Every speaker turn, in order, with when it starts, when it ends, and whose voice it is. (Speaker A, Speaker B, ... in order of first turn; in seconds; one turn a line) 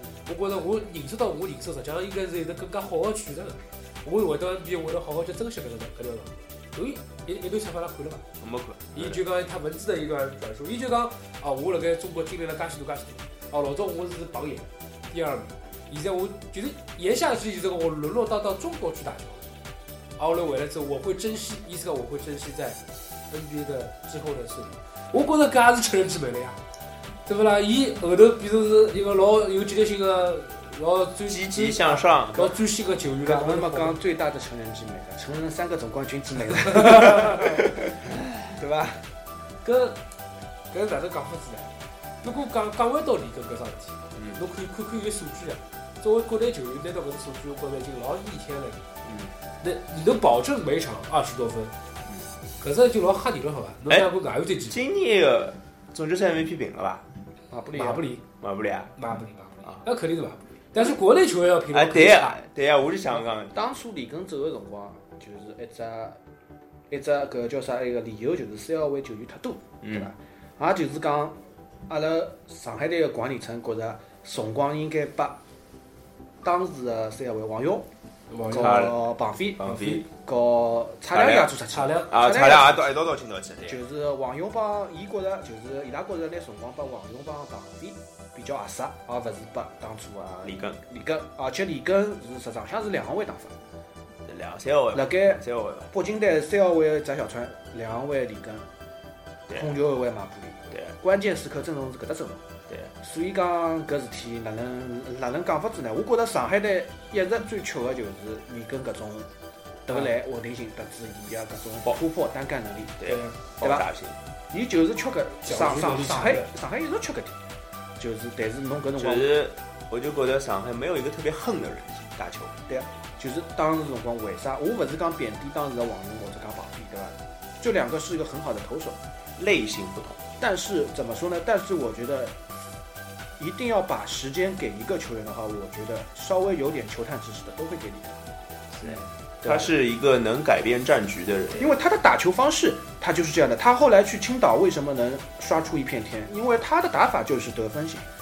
Speaker A: 0.2-8.2
Speaker B: 8.4-9.2
Speaker A: 8.9-19.5
Speaker A: 20.2-26.6
Speaker A: 27.2-34.0
Speaker B: 31.3-32.6
Speaker C: 33.2-39.0
Speaker A: 36.7-37.5
Speaker A: 39.6-40.0
Speaker A: 40.7-48.9
Speaker B: 44.1-44.4
Speaker B: 49.0-49.3
Speaker A: 49.6-51.7
Speaker A: 52.6-54.8
Speaker B: 54.7-57.0
Speaker C: 57.5-58.0
Speaker A: 57.7-58.2
Speaker B: 58.4-58.9
Speaker A: 59.0-62.4
Speaker B: 61.7-63.5
Speaker C: 63.5-66.2
Speaker C: 66.9-75.4
Speaker B: 69.8-70.1
Speaker C: 76.4-77.9
Speaker A: 78.3-78.9
Speaker C: 78.5-82.9
Speaker B: 78.5-79.1
Speaker B: 79.6-80.0
Speaker A: 79.6-80.0
Speaker B: 81.1-81.5
Speaker A: 81.7-82.1
Speaker B: 82.1-83.8
Speaker C: 83.6-93.6
Speaker B: 90.4-90.8
Speaker B: 94.2-95.9
Speaker C: 94.9-98.7
Speaker B: 99.5-99.7
Speaker C: 99.5-102.4
Speaker B: 100.7-101.0
Speaker C: 103.0-109.3
Speaker C: 109.8-113.0
Speaker B: 113.0-114.2
Speaker A: 113.0-113.4
Speaker C: 114.5-117.4
Speaker A: 115.4-116.5
Speaker C: 118.0-119.3
Speaker B: 119.0-122.5
Speaker C: 122.7-129.0
Speaker B: 129.4-130.2
Speaker C: 130.4-132.4
Speaker C: 133.4-138.2
Speaker B: 138.7-141.7
Speaker C: 139.4-139.7
Speaker C: 141.6-148.1